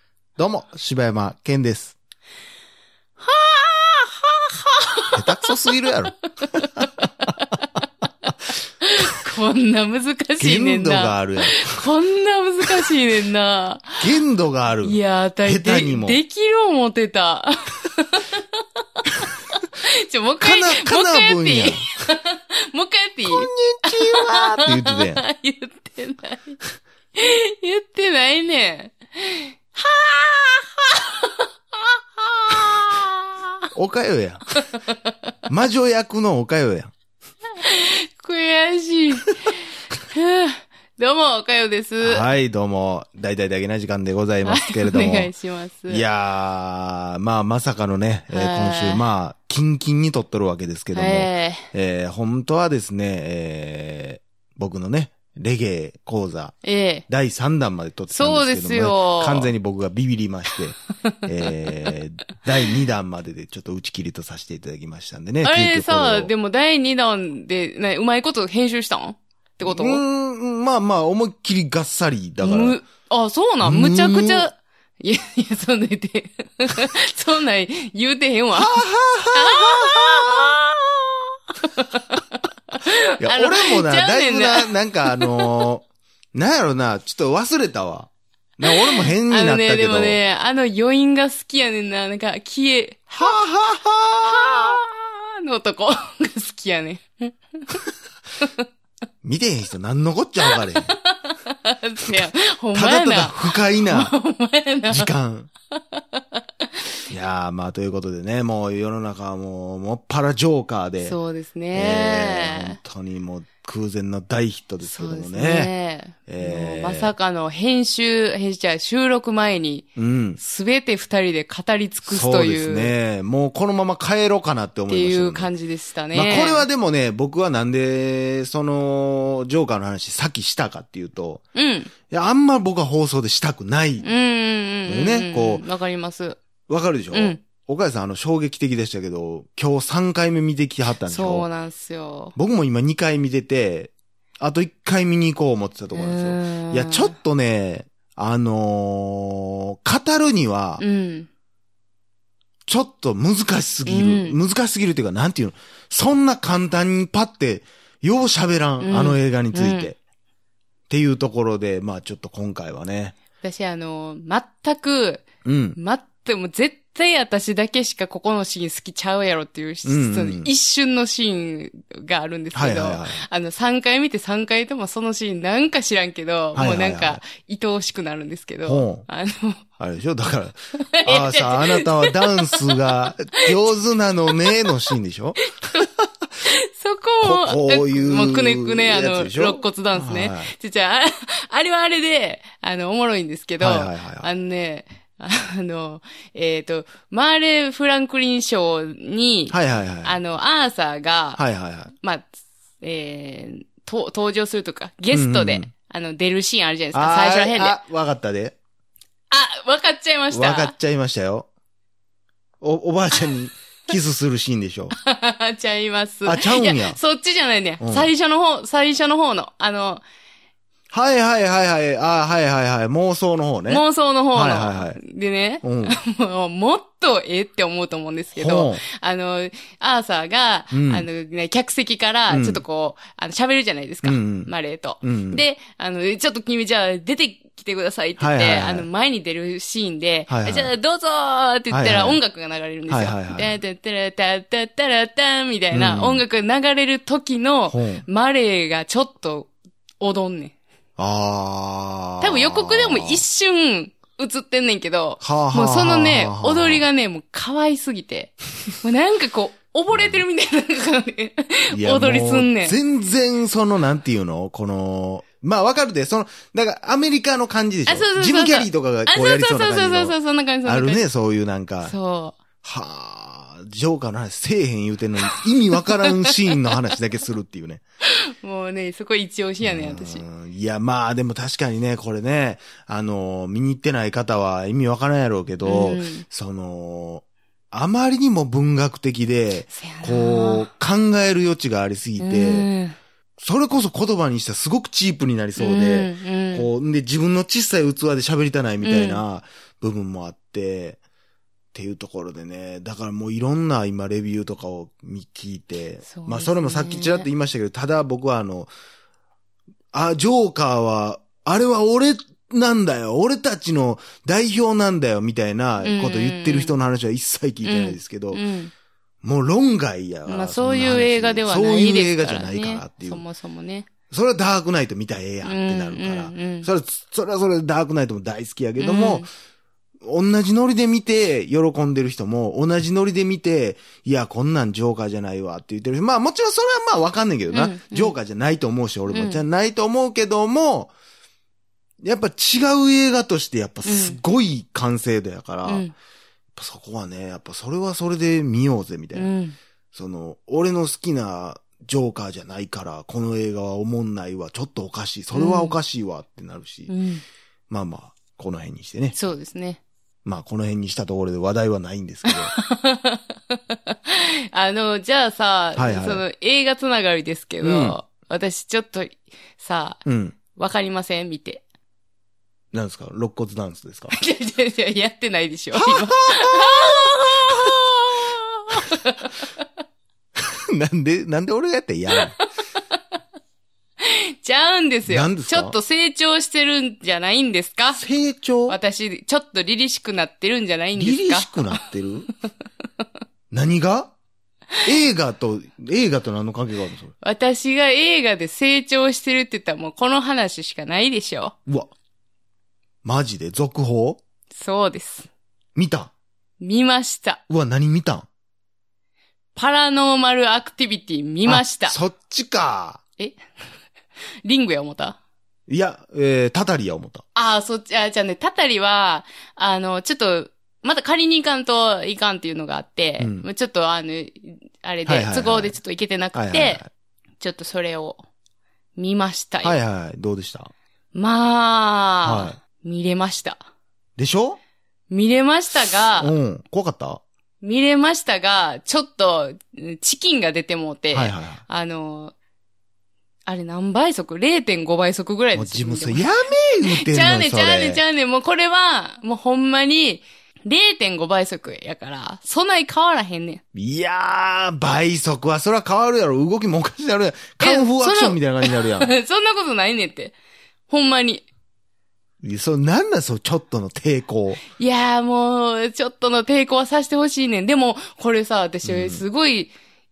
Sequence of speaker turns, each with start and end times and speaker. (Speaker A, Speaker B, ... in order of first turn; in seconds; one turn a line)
Speaker A: 0.4-2.0
Speaker B: 3.2-5.6
Speaker A: 5.1-6.9
Speaker B: 6.4-7.7
Speaker B: 8.8-14.0
Speaker A: 10.4-11.8
Speaker A: 14.0-16.2
Speaker B: 14.8-18.6
Speaker B: 19.7-26.6
Speaker A: 20.4-21.9
Speaker A: 23.2-25.2
Speaker B: 27.1-33.5
Speaker A: 33.7-34.5
Speaker A: 35.5-36.9
Speaker B: 37.6-42.3
Speaker A: 42.0-45.3
Speaker B: 44.5-46.0
Speaker A: 45.9-56.5
Speaker B: 48.3-49.0
Speaker B: 50.9-51.7
Speaker B: 56.6-57.0
Speaker A: 57.1-66.3
Speaker B: 58.1-59.5
Speaker B: 65.4-70.0
Speaker A: 69.6-72.8
Speaker B: 72.4-78.8
Speaker A: 73.6-74.5
Speaker A: 78.5-80.5
Speaker B: 79.3-85.7
Speaker A: 83.2-90.2
Speaker B: 88.7-93.1
Speaker A: 93.1-94.8
Speaker B: 94.2-97.8
Speaker A: 99.2-100.9
Speaker B: 100.5-105.1
Speaker A: 102.2-104.1
Speaker A: 104.9-105.5
Speaker B: 105.9-106.4
Speaker A: 107.1-111.2
Speaker B: 111.0-112.8
Speaker A: 111.7-115.7
Speaker B: 114.8-119.9
Speaker A: 116.3-117.1
Speaker A: 120.0-120.4
Speaker B: 120.4-122.9
Speaker A: 122.0-125.5
Speaker B: 124.9-126.7
Speaker A: 126.1-131.4
Speaker B: 131.5-131.9
Speaker A: 132.1-134.1
Speaker B: 134.0-136.4
Speaker A: 134.9-135.6
Speaker A: 136.7-141.4
Speaker B: 137.1-137.4
Speaker B: 141.0-142.3
Speaker A: 142.3-150.8
Speaker B: 145.9-147.1
Speaker B: 150.8-151.3
Speaker A: 152.7-160.0
Speaker B: 153.8-154.4
Speaker B: 158.8-159.9
Speaker A: 160.9-163.2
Speaker B: 163.4-179.6
Speaker A: 165.4-165.8
Speaker A: 169.8-170.5
Speaker A: 172.5-173.2
Speaker A: 176.5-177.2
Speaker A: 178.6-179.1
Speaker A: 179.8-185.4
Speaker B: 180.8-183.4
Speaker B: 185.4-185.9
Speaker B: 186.4-201.4
Speaker A: 187.2-190.5
Speaker A: 193.6-194.3
Speaker A: 199.5-200.2
Speaker A: 201.4-201.9
Speaker B: 202.0-202.3
Speaker B: 202.8-207.8
Speaker A: 205.1-205.7
Speaker A: 206.9-208.6
Speaker B: 209.3-210.7
Speaker A: 210.3-211.5
Speaker A: 212.6-214.9
Speaker B: 214.9-220.0
Speaker A: 216.2-217.0
Speaker A: 217.8-218.1
Speaker A: 220.9-225.0
Speaker B: 223.7-250.6
Speaker A: 225.6-226.0
Speaker A: 228.3-228.8
Speaker A: 230.7-231.1
Speaker A: 232.3-232.6
Speaker A: 234.0-235.4
Speaker A: 238.2-238.9
Speaker A: 240.3-240.7
Speaker A: 241.7-242.2
Speaker A: 242.9-243.5
Speaker A: 245.7-246.2
Speaker A: 247.7-248.0
Speaker A: 251.0-253.2
Speaker B: 252.2-262.8
Speaker A: 255.2-256.8
Speaker A: 259.9-260.2
Speaker A: 261.7-271.9
Speaker B: 267.9-271.0
Speaker B: 271.8-272.4
Speaker A: 272.6-277.8
Speaker B: 275.3-276.6
Speaker B: 278.1-280.2
Speaker A: 279.6-292.7
Speaker B: 285.6-286.2
Speaker B: 289.7-290.7
Speaker B: 292.2-293.0
Speaker A: 293.4-301.0
Speaker B: 295.6-296.7
Speaker B: 298.8-299.2
Speaker A: 301.7-308.7
Speaker B: 306.1-307.3
Speaker A: 309.9-318.4
Speaker B: 315.8-316.7
Speaker B: 317.6-318.7
Speaker A: 319.2-323.2
Speaker B: 320.2-323.9
Speaker A: 324.1-329.3
Speaker B: 325.4-326.7
Speaker B: 328.8-329.3
Speaker A: 330.0-340.9
Speaker B: 337.5-338.1
Speaker B: 339.1-339.4
Speaker A: 342.0-345.9
Speaker B: 343.8-344.2
Speaker B: 345.6-345.9
Speaker A: 346.6-349.3
Speaker B: 349.1-349.6
Speaker A: 349.9-356.9
Speaker B: 355.3-355.8
Speaker B: 356.9-357.2
Speaker A: 357.7-359.1
Speaker B: 359.1-359.8
Speaker A: 360.2-362.5
Speaker B: 362.3-370.0
Speaker A: 365.8-366.2
Speaker A: 367.6-368.0
Speaker A: 370.1-370.4
Speaker B: 370.5-371.6
Speaker A: 372.7-374.1
Speaker B: 374.1-379.5
Speaker A: 375.8-377.8
Speaker A: 380.4-382.3
Speaker B: 384.0-388.1
Speaker A: 385.1-385.8
Speaker A: 388.0-388.8
Speaker B: 388.7-391.8
Speaker A: 390.9-392.3
Speaker A: 393.5-394.1
Speaker A: 394.8-397.1
Speaker B: 397.2-401.6
Speaker A: 401.7-401.9
Speaker A: 403.0-404.2
Speaker B: 404.6-405.3
Speaker A: 405.8-406.1
Speaker B: 406.6-407.4
Speaker A: 407.5-408.3
Speaker B: 409.6-412.0
Speaker A: 411.4-413.0
Speaker B: 414.4-415.2
Speaker A: 415.7-417.2
Speaker B: 417.3-426.8
Speaker A: 423.2-423.5
Speaker A: 425.1-425.8
Speaker A: 426.3-426.9
Speaker B: 427.4-428.2
Speaker B: 428.9-429.8
Speaker A: 429.6-430.7
Speaker B: 431.1-433.6
Speaker A: 432.2-432.6
Speaker A: 434.2-434.6
Speaker B: 435.1-436.3
Speaker A: 436.2-437.2
Speaker B: 437.6-442.3
Speaker A: 441.1-441.6
Speaker B: 443.4-446.2
Speaker A: 445.6-448.0
Speaker B: 446.8-453.6
Speaker A: 453.7-459.1
Speaker B: 457.6-460.3
Speaker B: 460.9-461.4
Speaker A: 462.4-464.6
Speaker B: 464.7-469.7
Speaker A: 468.8-469.2